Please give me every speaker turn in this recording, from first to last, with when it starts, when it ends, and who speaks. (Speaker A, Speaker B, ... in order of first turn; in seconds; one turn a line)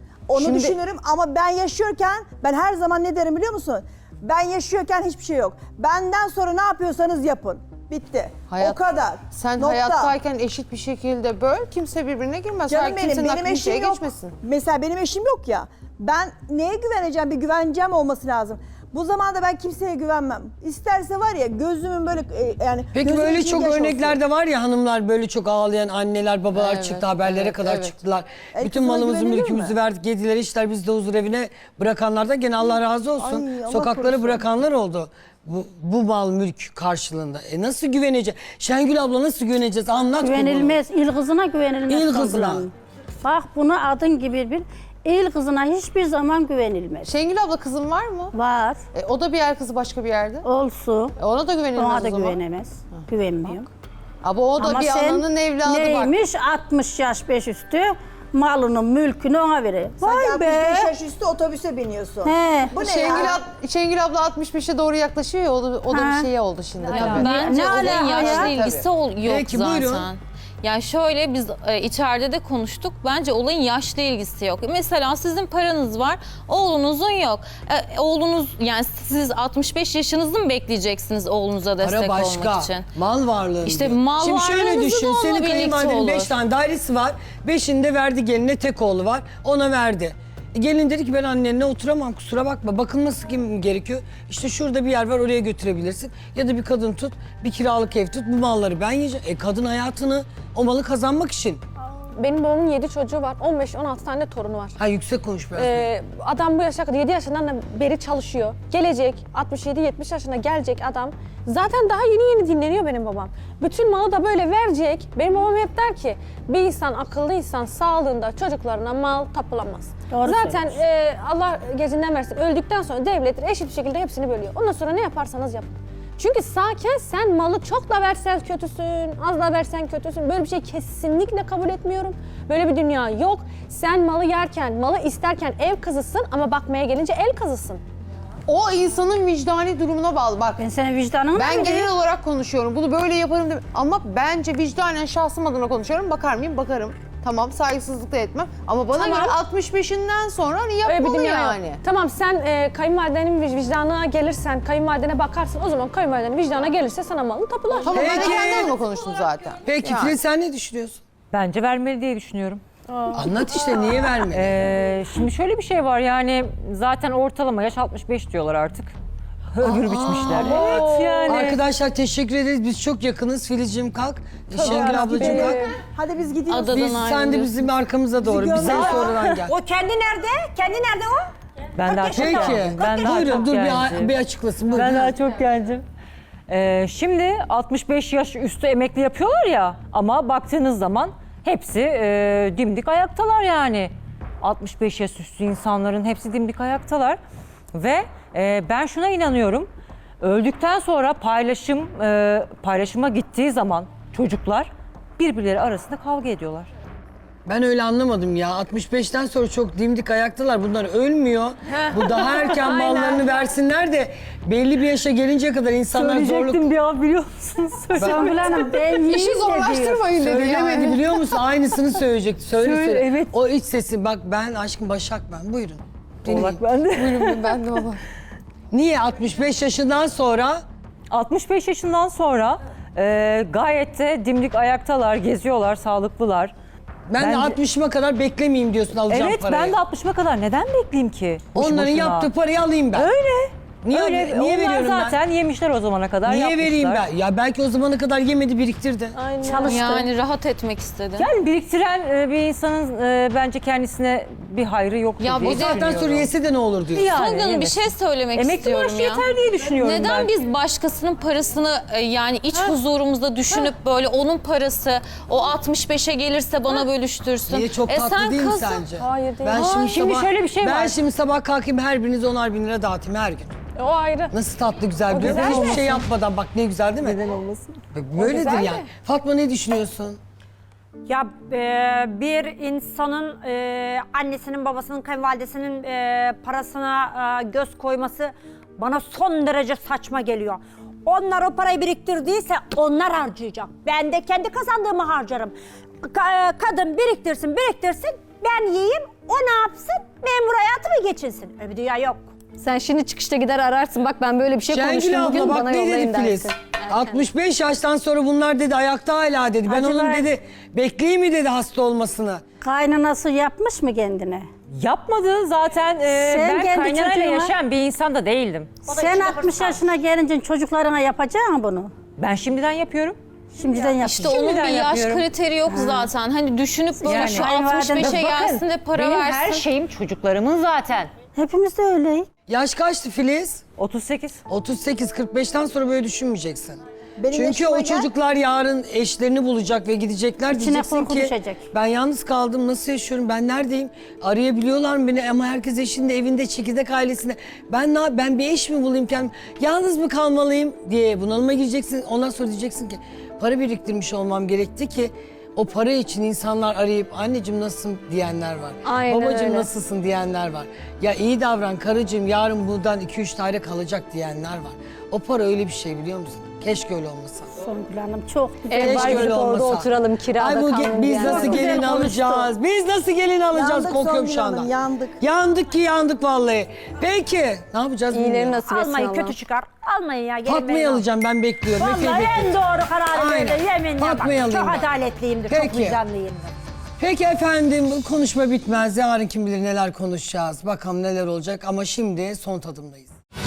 Speaker A: 0.3-10.1
Speaker B: 0.3-0.8
Speaker B: 8.5-14.3
Speaker A: 12.7-24.2
Speaker C: 22.9-40.8
Speaker B: 26.5-27.9
Speaker A: 28.5-29.8
Speaker A: 33.2-34.5
Speaker D: 40.2-42.7
Speaker C: 41.9-42.7
Speaker D: 43.2-47.1
Speaker B: 47.0-48.3
Speaker D: 48.3-48.8
Speaker B: 48.9-50.5
Speaker D: 50.4-51.1
Speaker B: 51.2-53.6
Speaker D: 51.7-53.7
Speaker B: 54.2-56.2
Speaker D: 54.6-60.9
Speaker A: 60.0-63.4
Speaker D: 62.2-62.8
Speaker B: 62.8-68.9
Speaker D: 65.9-66.3
Speaker D: 66.9-68.6
Speaker E: 67.0-82.9
Speaker C: 69.3-70.1
Speaker C: 81.8-101.6
Speaker E: 83.6-86.3
Speaker F: 102.2-104.8
Speaker C: 104.8-105.9
Speaker F: 105.5-137.8
Speaker D: 120.1-120.8
Speaker B: 138.5-140.6
Speaker D: 140.6-141.9
Speaker B: 141.3-151.8
Speaker F: 148.9-149.4
Speaker F: 150.8-158.4
Speaker B: 157.8-160.2
Speaker C: 157.9-158.7
Speaker C: 159.6-161.0
Speaker G: 161.3-162.6
Speaker F: 162.9-163.3
Speaker C: 163.1-164.7
Speaker G: 164.2-168.9
Speaker G: 169.5-171.6
Speaker C: 169.6-175.7
Speaker F: 170.4-171.3
Speaker F: 174.5-175.7
Speaker A: 174.6-176.9
Speaker E: 176.5-177.7
Speaker C: 176.7-179.6
Speaker A: 178.2-179.3
Speaker G: 178.5-179.1
Speaker H: 178.8-181.2
Speaker G: 181.8-184.2
Speaker H: 181.8-183.4
Speaker C: 182.2-185.2
Speaker G: 184.7-185.8
Speaker G: 186.5-197.2
Speaker G: 197.7-199.7
Speaker G: 200.2-206.7
Speaker C: 207.5-216.7
Speaker G: 212.0-212.9
Speaker F: 212.9-213.2
Speaker G: 215.9-219.0
Speaker C: 217.9-218.3
Speaker B: 218.0-221.1
Speaker D: 218.0-220.1
Speaker C: 220.2-226.6
Speaker G: 220.3-221.0
Speaker G: 222.6-223.3
Speaker G: 226.3-227.6
Speaker B: 226.3-228.0
Speaker C: 228.7-230.6
Speaker G: 231.1-236.6
Speaker C: 237.1-239.8
Speaker G: 237.2-237.6
Speaker G: 239.1-242.3
Speaker C: 241.6-243.1
Speaker G: 242.9-247.0
Speaker C: 243.8-245.2
Speaker C: 246.2-249.2
Speaker F: 249.2-249.8
Speaker G: 249.4-250.1
Speaker E: 249.6-251.3
Speaker G: 251.2-256.3
Speaker B: 255.2-256.0
Speaker C: 255.6-257.1
Speaker G: 256.9-260.3
Speaker E: 257.1-268.9
Speaker C: 267.5-273.5
Speaker F: 268.9-270.1
Speaker G: 269.5-270.9
Speaker F: 273.8-274.4
Speaker C: 274.3-277.2
Speaker F: 275.2-275.9
Speaker G: 275.2-276.0
Speaker C: 277.9-280.2
Speaker F: 278.2-278.9
Speaker H: 281.1-302.3
Speaker I: 302.6-307.2
Speaker C: 304.7-312.4
Speaker D: 309.7-310.2
Speaker D: 312.6-314.5
Speaker G: 314.8-318.8
Speaker D: 316.1-317.5
Speaker D: 318.9-321.9
Speaker H: 318.9-319.8
Speaker G: 322.2-323.2
Speaker D: 323.6-324.4
Speaker E: 324.0-329.7
Speaker G: 324.4-325.3
Speaker D: 325.7-326.1
Speaker D: 327.0-328.2
Speaker G: 327.0-328.4
Speaker H: 327.7-331.1
Speaker D: 331.3-332.3
Speaker C: 332.5-333.6
Speaker G: 333.8-334.4
Speaker C: 334.5-336.8
Speaker A: 337.2-338.1
Speaker C: 337.3-367.5
Speaker D: 340.5-341.6
Speaker I: 358.9-359.7
Speaker D: 367.6-369.5
Speaker I: 368.7-371.9
Speaker C: 368.7-378.6
Speaker A: 371.2-372.0
Speaker H: 371.4-371.6
Speaker D: 371.8-372.5
Speaker A: 373.5-375.2
Speaker I: 378.1-379.4
Speaker H: 378.7-381.1
Speaker C: 380.4-382.6
Speaker H: 381.8-386.5
Speaker C: 383.1-384.9
Speaker C: 385.5-386.0
Speaker C: 387.0-393.1